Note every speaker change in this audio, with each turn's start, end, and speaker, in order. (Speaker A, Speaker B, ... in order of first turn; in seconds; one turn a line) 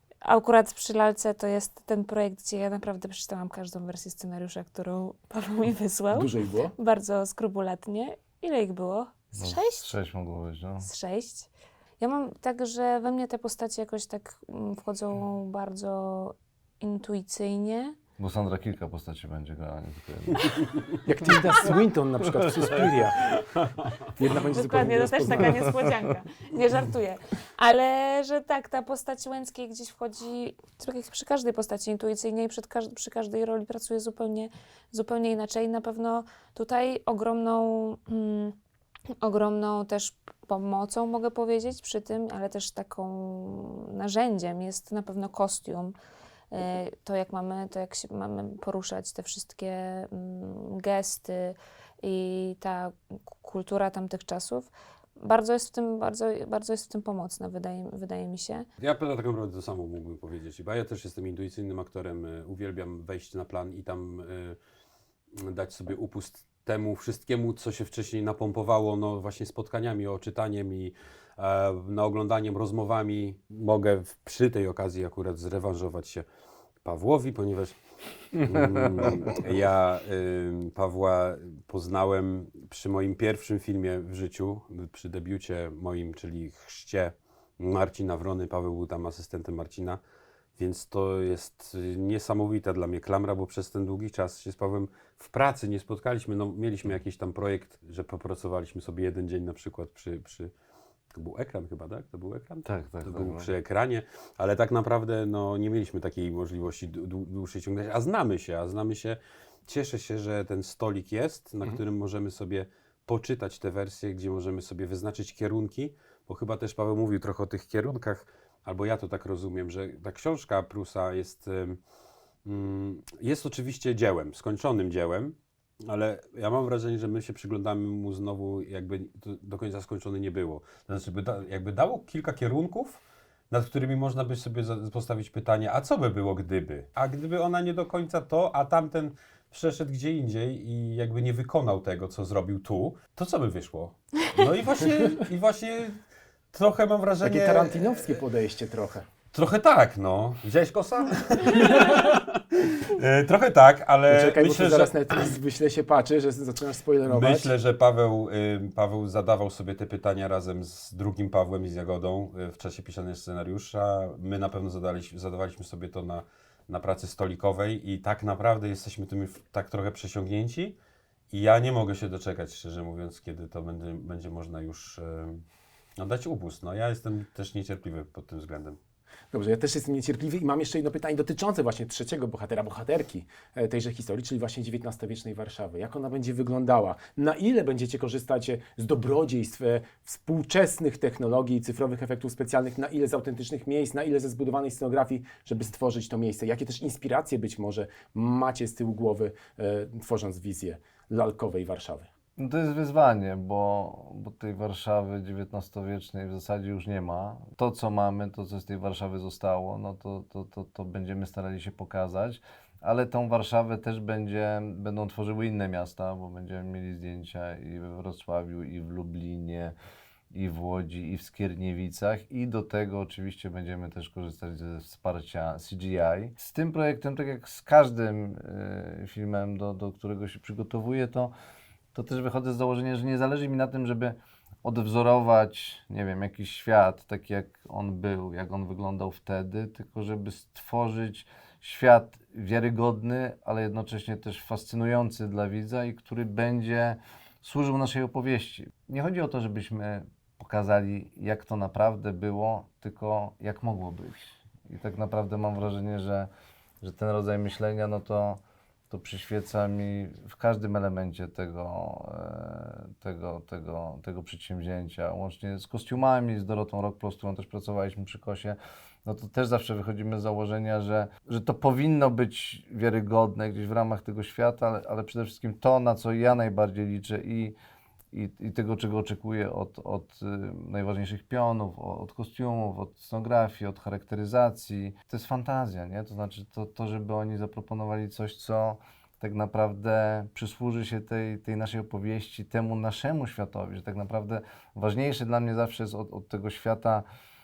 Speaker A: 0.2-9.9
Speaker B: 6.1-6.7
Speaker C: 9.4-10.9
Speaker A: 10.8-18.0
Speaker C: 18.2-20.6
Speaker B: 21.0-23.3
Speaker D: 23.4-24.0
Speaker B: 24.1-25.5
Speaker A: 24.5-38.5
Speaker A: 39.2-45.9
Speaker A: 46.5-58.6
Speaker D: 58.8-64.6
Speaker D: 65.3-76.2
Speaker D: 76.8-77.8
Speaker D: 78.3-90.0
Speaker C: 78.7-79.3
Speaker D: 90.6-100.5
Speaker D: 101.1-121.8
Speaker C: 102.6-103.5
Speaker D: 122.4-146.0
Speaker D: 146.5-148.2
Speaker B: 147.2-149.1
Speaker D: 149.3-155.3
Speaker B: 154.1-157.5
Speaker D: 157.1-170.8
Speaker D: 171.3-175.4
Speaker D: 176.0-178.8
Speaker B: 179.3-202.1
Speaker C: 202.4-219.7
Speaker C: 220.3-231.3
Speaker C: 231.9-256.3
Speaker C: 256.8-277.6
Speaker C: 278.1-297.0